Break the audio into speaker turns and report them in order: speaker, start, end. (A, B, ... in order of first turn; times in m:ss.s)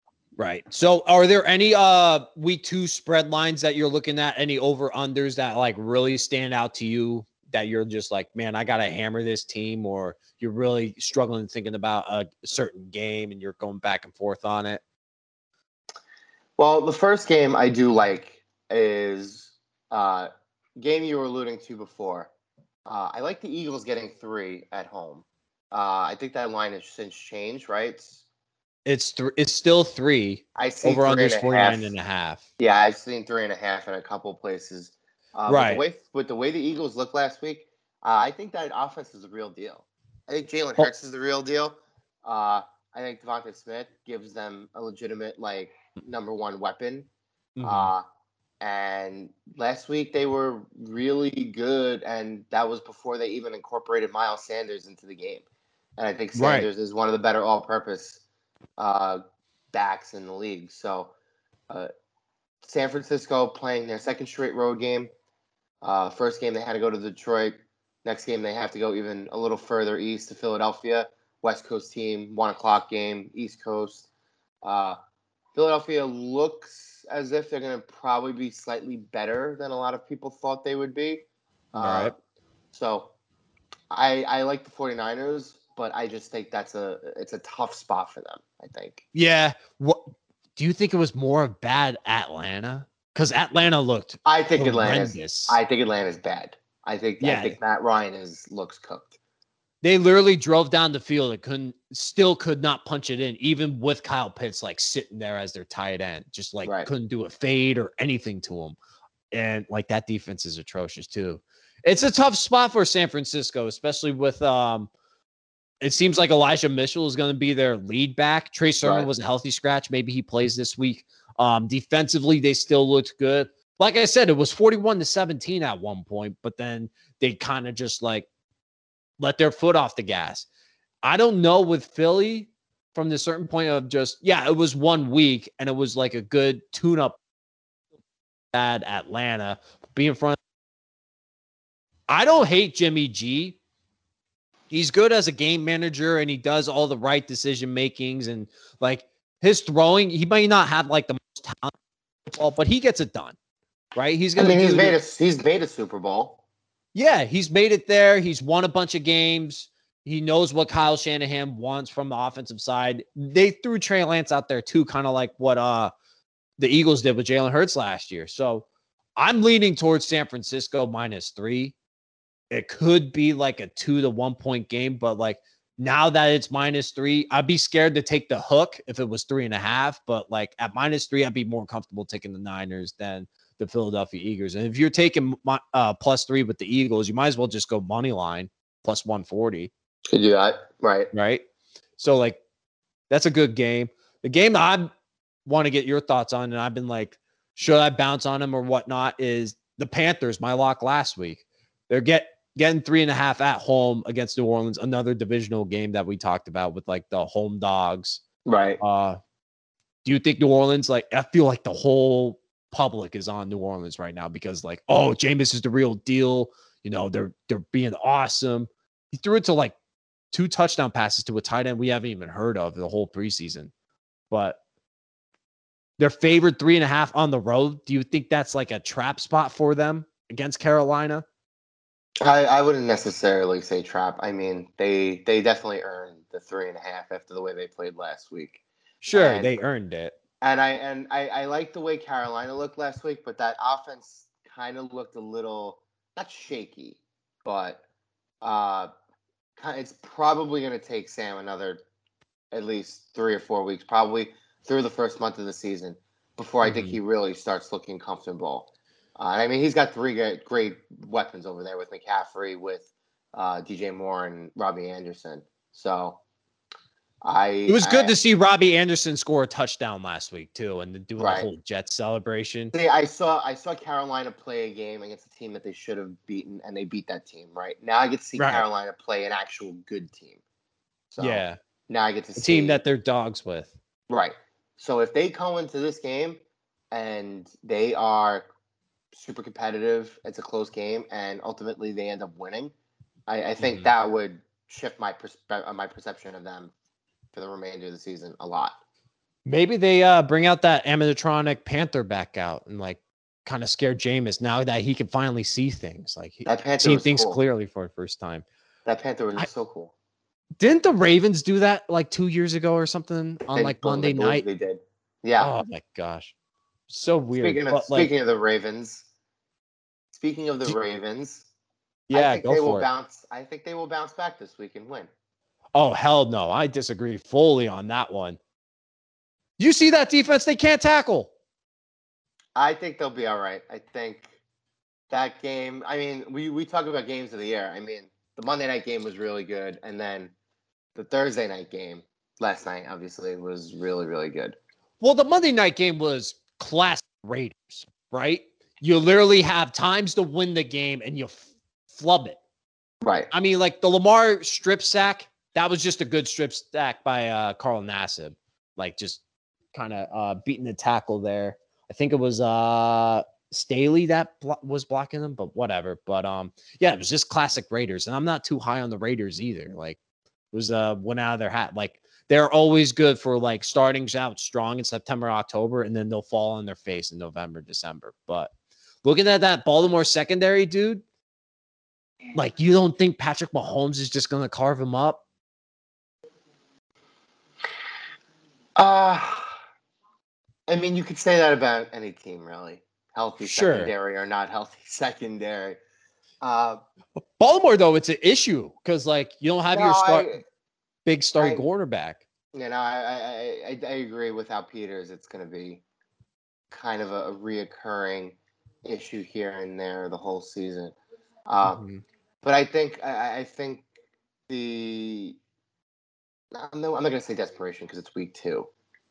0:00.4-0:14.8 A
0:16.6-0:22.3 B
0:22.8-0:28.2 B
0:28.8-0:32.4 A
0:30.6-0:31.9 B
0:32.6-0:47.1 B
0:35.5-0:35.8 A
0:47.6-0:47.9 A
0:47.6-0:48.0 B
0:48.6-0:55.4 B
0:56.0-0:58.2 B
0:56.3-0:56.7 A
0:58.8-0:59.2 B
0:59.7-1:01.1 B
1:02.6-1:05.1 B
1:05.8-1:14.1 B
1:14.6-1:15.0 B
1:15.5-1:22.1 B
1:21.8-1:22.1 A
1:22.7-1:23.1 B
1:23.9-1:29.0 B
1:29.1-1:35.6 A
1:34.2-1:39.1 B
1:37.2-1:37.6 A
1:39.8-1:48.8 A
1:49.3-1:54.9 A
1:55.8-2:08.3 A
1:58.8-1:59.1 B
2:09.2-2:10.4 A
2:11.0-2:17.2 A
2:18.5-2:20.4 A
2:22.1-2:23.6 A
2:24.7-2:31.7 A
2:32.3-2:33.4 A
2:33.9-2:35.0 A
2:34.4-2:36.4 B
2:36.9-2:45.9 A
2:46.6-2:48.6 A
2:49.2-2:51.7 A
2:52.5-3:09.7 A
3:10.1-3:11.1 B
3:11.1-3:11.4 A
3:12.0-3:12.4 A
3:13.1-3:14.9 A
3:15.4-3:28.2 A
3:28.4-3:28.8 B
3:28.8-3:29.2 A
3:30.0-3:39.7 A
3:40.3-3:43.7 A
3:44.3-3:44.6 A
3:46.0-3:51.2 A
3:52.2-3:58.6 B
3:59.0-4:00.2 A
3:59.1-3:59.6 B
4:00.4-4:07.8 B
4:08.4-4:08.9 B
4:09.6-4:11.8 B
4:12.5-4:26.2 B
4:16.6-4:17.0 A
4:27.2-4:28.1 B
4:27.7-4:32.7 A
4:31.2-4:31.5 B
4:32.7-4:40.4 B
4:38.4-4:38.6 A
4:41.1-4:42.8 B
4:41.2-4:41.6 A
4:42.4-4:43.7 A
4:44.1-4:46.4 B
4:46.9-4:48.4 B
4:49.1-4:52.7 B
4:53.3-4:56.7 B
4:53.6-4:53.9 A
4:57.3-4:58.8 B
4:59.4-5:08.4 A
5:06.4-5:07.4 B
5:08.8-5:09.9 B
5:10.6-5:14.4 A
5:13.5-5:15.5 B
5:15.4-5:16.3 A
5:16.9-5:18.1 A
5:17.4-5:19.1 B
5:20.1-5:21.5 B
5:22.1-5:22.9 A
5:22.1-5:25.1 B
5:25.7-5:28.4 A
5:29.6-5:31.3 A
5:32.6-5:34.3 B
5:35.1-5:40.3 B
5:40.9-5:44.6 B
5:45.0-5:52.4 A
5:53.0-5:53.3 B
5:53.3-5:59.2 A
5:59.7-6:10.0 A
6:10.5-6:18.5 A
6:19.0-6:21.0 A
6:22.3-6:25.2 A
6:28.8-6:29.5 B
6:30.7-6:35.8 B
6:33.4-6:33.9 A
6:36.4-6:36.8 B
6:37.4-6:40.3 A
6:39.7-6:40.4 B
6:41.0-6:42.2 A
6:41.4-6:41.6 B
6:42.5-6:45.8 B
6:46.7-6:51.0 B
6:51.5-6:51.8 B
6:51.6-6:52.0 A
6:52.4-6:53.8 B
6:54.5-6:55.4 B
6:56.5-6:58.7 B